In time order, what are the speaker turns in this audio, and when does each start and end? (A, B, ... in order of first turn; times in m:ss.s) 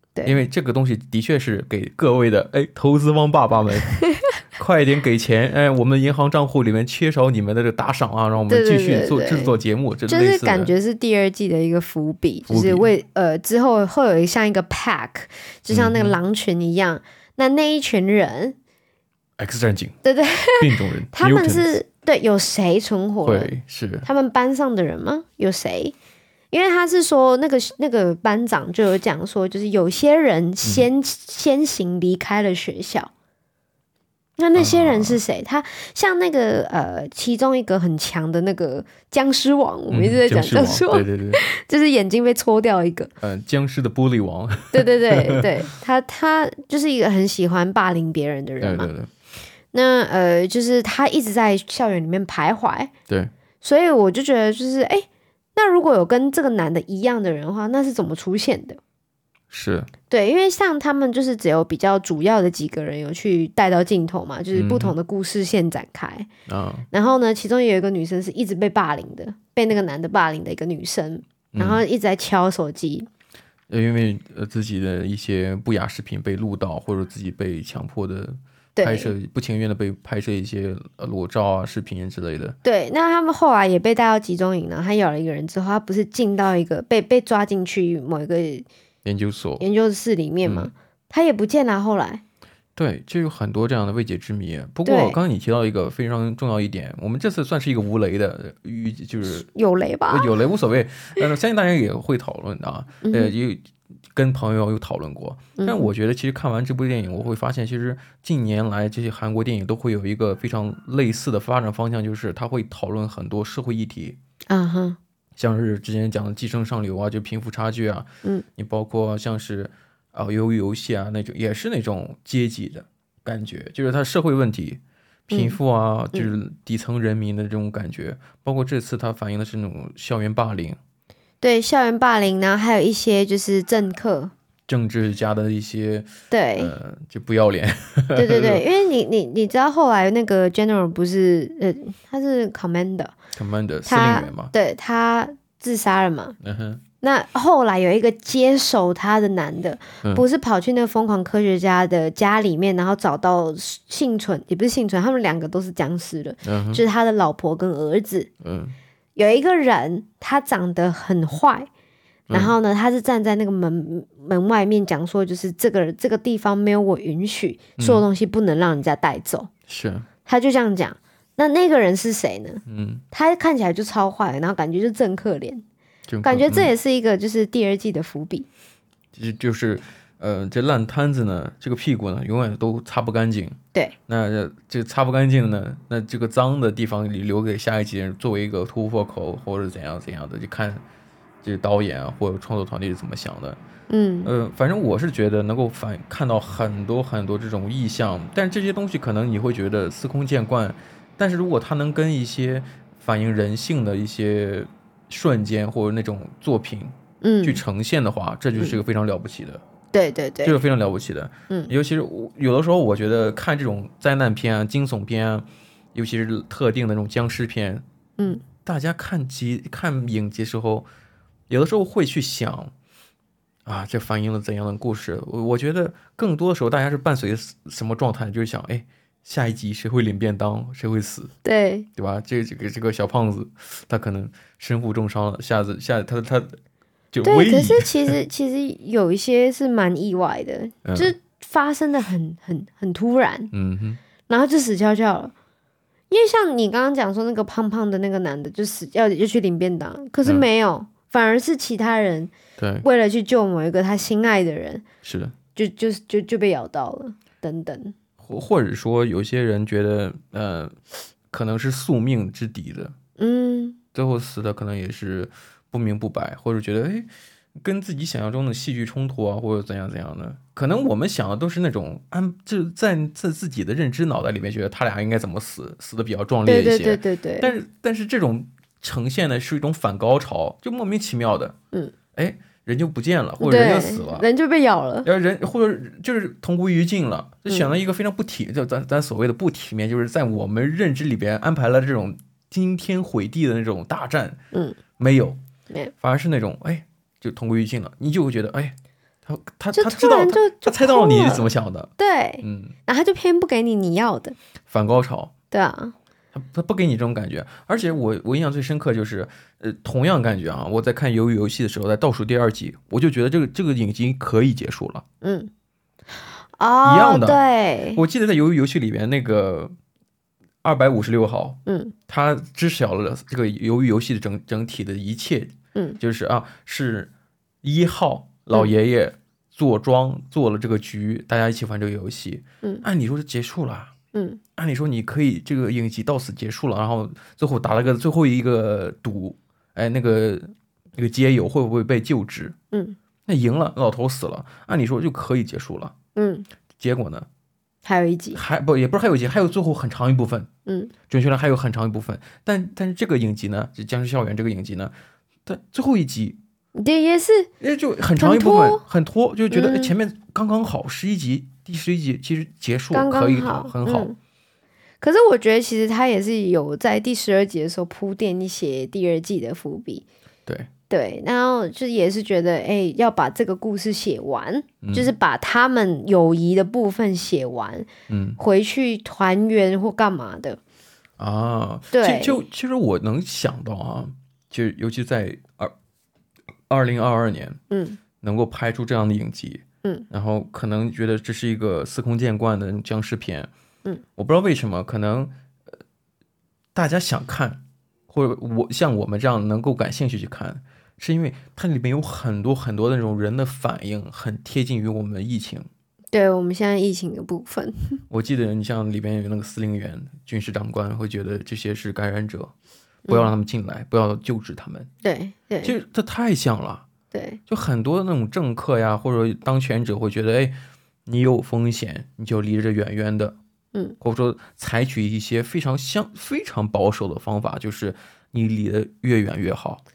0:00.2-0:04.0 A
0:04.5-0:10.7 A
0:08.5-0:09.5 B
0:10.1-0:18.6 B
0:12.5-0:12.9 A
0:15.7-0:16.2 A
0:19.4-0:20.0 A
0:20.0-0:23.5 B
0:20.6-0:21.8 A
0:23.2-0:24.1 A
0:24.0-0:25.9 B
0:26.5-0:33.1 B
0:34.4-0:43.1 B
0:34.6-0:35.2 A
0:39.9-0:41.4 A
0:43.2-0:45.4 A
0:44.7-0:48.9 B
0:48.6-0:49.1 A
0:49.7-0:52.9 B
0:53.6-0:58.8 B
0:59.5-0:59.9 A
1:00.1-1:06.3 B
1:04.5-1:04.9 A
1:06.5-1:06.9 A
1:06.9-1:13.1 B
1:11.5-1:11.8 A
1:13.7-1:22.6 A
1:18.8-1:19.1 B
1:22.6-1:28.6 B
1:29.0-1:29.6 A
1:29.6-1:32.2 B
1:30.4-1:30.7 A
1:32.8-1:39.4 A
1:34.8-1:35.2 B
1:39.3-1:40.3 B
1:40.1-1:54.2 A
1:43.0-1:43.3 B
1:45.6-1:45.9 B
1:54.5-1:55.0 B
1:55.4-2:10.8 A
2:05.3-2:05.6 B
2:11.4-2:14.3 B
2:14.7-2:18.6 A
2:16.3-2:16.7 B
2:18.1-2:23.1 B
2:23.3-2:24.5 A
2:23.8-2:26.4 B
2:26.4-2:26.8 A
2:27.0-2:38.3 B
2:36.4-2:36.8 A
2:38.4-2:38.7 A
2:39.2-2:41.7 B
2:42.3-2:42.5 A
2:42.3-2:49.5 B
2:47.8-2:48.0 A
2:49.7-2:50.1 A
2:50.2-2:55.6 B
2:52.7-2:53.0 A
2:56.1-2:56.7 A
2:56.2-2:58.5 B
2:59.1-3:10.8 A
3:11.4-3:13.6 A
3:13.9-3:14.3 B
3:14.2-3:29.6 A
3:27.2-3:27.6 B
3:29.9-3:30.6 B
3:30.4-3:37.8 A
3:38.4-3:40.9 A
3:41.5-3:42.7 A
3:43.6-3:51.3 A
3:51.4-3:51.9 B
3:52.0-3:56.6 A
3:57.1-3:58.1 A
3:57.2-4:03.5 B
4:00.8-4:01.1 A
4:03.5-4:04.0 A
4:04.3-4:05.3 B
4:06.1-4:12.3 B
4:12.6-4:12.8 A
4:12.8-4:14.8 B
4:15.0-4:15.3 A
4:15.5-4:17.9 B
4:18.2-4:20.7 A
4:21.3-4:22.9 A
4:23.2-4:23.8 B
4:23.9-4:41.5 A
4:36.4-4:37.5 B
4:42.1-4:44.2 A
4:43.4-4:45.1 B
4:45.0-4:54.4 A
4:55.0-4:55.4 A
4:56.0-4:58.7 A
4:59.2-5:01.9 A
4:59.7-5:04.4 B
5:02.4-5:02.7 A
5:04.7-5:05.3 A
5:05.5-5:05.9 B
5:06.3-5:15.0 A
5:15.2-5:15.5 B
5:16.6-5:18.0 B
5:16.8-5:17.4 A
5:17.9-5:19.7 A
5:20.6-5:27.1 A
5:21.7-5:21.9 B
5:27.6-5:33.9 A
5:34.1-5:34.4 B
5:34.6-5:42.6 A
5:42.7-5:43.0 B
5:43.3-5:45.9 A
5:46.2-5:46.5 B
5:46.8-5:47.3 A
5:47.8-5:48.4 B
5:48.3-5:50.5 A
5:50.6-5:50.9 B
5:51.1-5:54.9 A
5:55.4-5:56.4 A
5:56.7-5:57.5 B
5:57.6-6:04.1 A
5:58.2-5:58.8 B
5:59.5-5:59.9 B
6:02.9-6:04.2 B
6:05.0-6:10.0 B
6:10.9-6:17.9 B
6:14.8-6:15.1 A
6:18.1-6:18.4 A
6:18.4-6:20.6 B
6:21.2-6:25.7 A
6:21.9-6:22.4 B
6:26.7-6:27.6 A
6:27.7-6:28.0 B
6:28.2-6:33.5 A
6:34.2-6:35.3 A
6:36.7-6:45.7 A
6:46.1-6:48.0 B
6:48.1-6:52.5 A
6:53.1-6:54.9 A
6:55.0-6:55.7 B
6:55.6-6:56.8 A
6:57.1-6:57.4 B
6:57.5-7:00.5 A
7:01.0-7:03.4 A
7:04.0-7:09.8 A